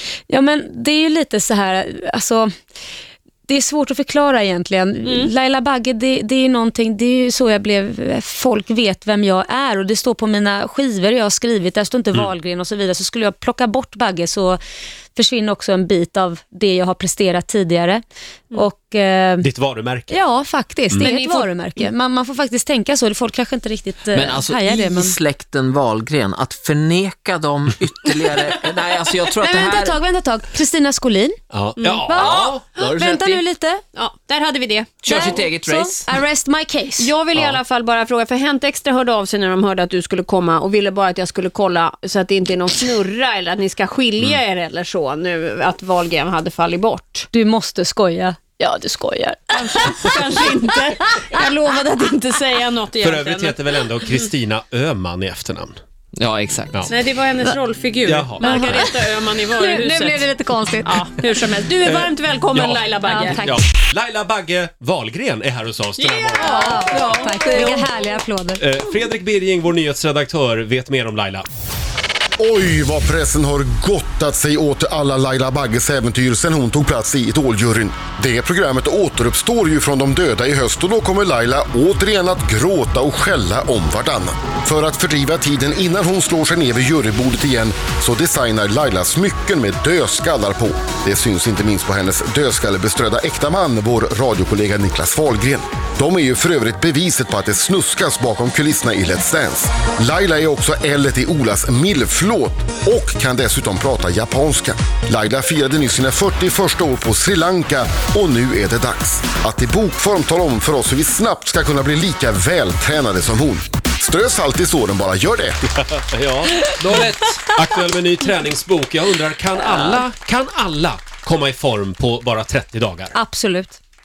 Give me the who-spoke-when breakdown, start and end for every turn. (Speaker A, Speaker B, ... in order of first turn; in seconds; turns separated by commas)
Speaker A: 0.3-2.5, Speaker A: 3.5-14.6, Speaker B: 5.0-5.3, Speaker A: 15.2-19.5, Speaker C: 19.4-20.2, Speaker A: 20.1-25.2, Speaker B: 21.0-21.9, Speaker D: 24.1-30.0, Speaker A: 29.4-31.4, Speaker C: 31.5-32.6, Speaker B: 31.8-33.2, Speaker A: 32.1-33.8, Speaker D: 32.2-33.4, Speaker B: 33.9-35.5, Speaker D: 35.0-36.1, Speaker A: 35.1-37.1, Speaker B: 37.0-47.3, Speaker C: 37.4-37.6, Speaker A: 47.3-50.2, Speaker B: 49.5-54.2, Speaker A: 50.7-51.2, Speaker C: 53.0-55.8, Speaker D: 56.2-56.9, Speaker B: 56.9-63.6, Speaker C: 58.1-58.9, Speaker A: 58.4-59.0, Speaker A: 59.5-61.2, Speaker C: 61.8-66.9, Speaker A: 63.0-63.4, Speaker B: 66.0-67.9, Speaker A: 66.4-68.7, Speaker D: 67.0-67.7, Speaker C: 68.6-71.5, Speaker E: 72.4-115.6, Speaker C: 115.9-123.1, Speaker D: 116.8-117.5, Speaker A: 123.1-123.8